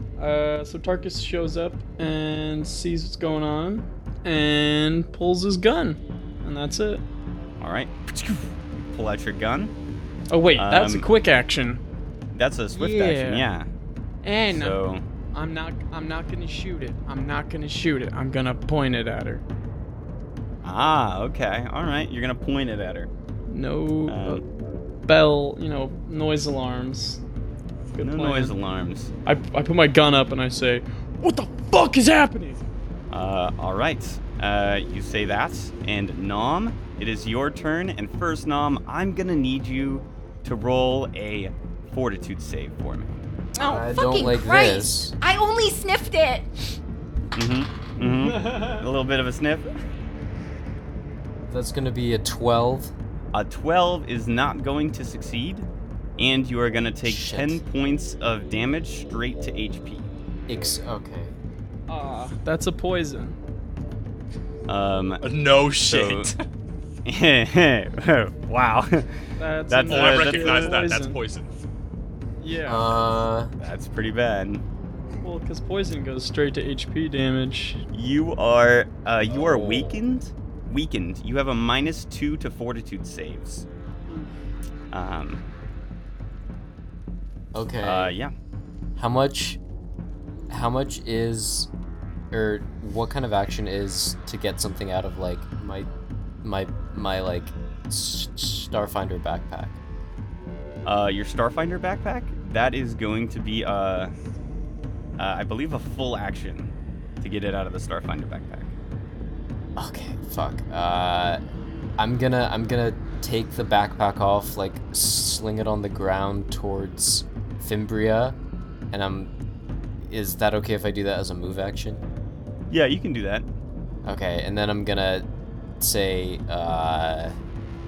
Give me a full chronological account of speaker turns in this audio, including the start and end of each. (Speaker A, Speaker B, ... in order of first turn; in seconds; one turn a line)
Speaker A: 0.2-7.0
Speaker B: 7.6-9.7
Speaker A: 10.3-11.8
Speaker B: 10.5-11.1
Speaker B: 12.3-13.7
Speaker A: 12.7-13.5
Speaker A: 14.2-14.8
Speaker B: 14.5-15.0
Speaker A: 15.3-19.4
Speaker B: 20.6-23.1
Speaker A: 23.5-24.4
Speaker B: 24.1-24.4
Speaker A: 25.1-27.2
Speaker A: 27.9-28.6
Speaker B: 28.0-29.1
Speaker A: 29.3-32.6
Speaker B: 33.1-43.1
Speaker C: 43.5-46.8
Speaker D: 43.6-45.1
Speaker B: 47.4-49.7
Speaker A: 48.0-48.9
Speaker D: 51.5-52.9
Speaker B: 53.3-55.7
Speaker B: 56.2-60.1
Speaker D: 57.0-57.6
Speaker D: 60.5-61.3
Speaker A: 61.9-63.4
Speaker B: 64.7-65.3
Speaker E: 65.2-66.4
Speaker B: 65.8-66.3
Speaker B: 67.1-70.8
Speaker A: 69.4-71.2
Speaker E: 69.9-71.5
Speaker A: 72.4-72.9
Speaker D: 72.7-73.5
Speaker B: 73.6-74.6
Speaker A: 75.2-77.8
Speaker B: 77.9-83.7
Speaker B: 84.9-85.4
Speaker D: 87.5-88.2
Speaker B: 87.8-88.3
Speaker D: 89.0-89.6
Speaker D: 90.5-91.7
Speaker D: 92.3-95.9
Speaker D: 96.4-99.8
Speaker B: 100.8-104.1
Speaker B: 105.2-108.7
Speaker D: 109.8-111.4
Speaker D: 112.0-118.4
Speaker D: 118.9-119.3
Speaker D: 120.0-122.0
Speaker B: 122.7-123.5
Speaker D: 124.0-125.3
Speaker D: 125.8-127.4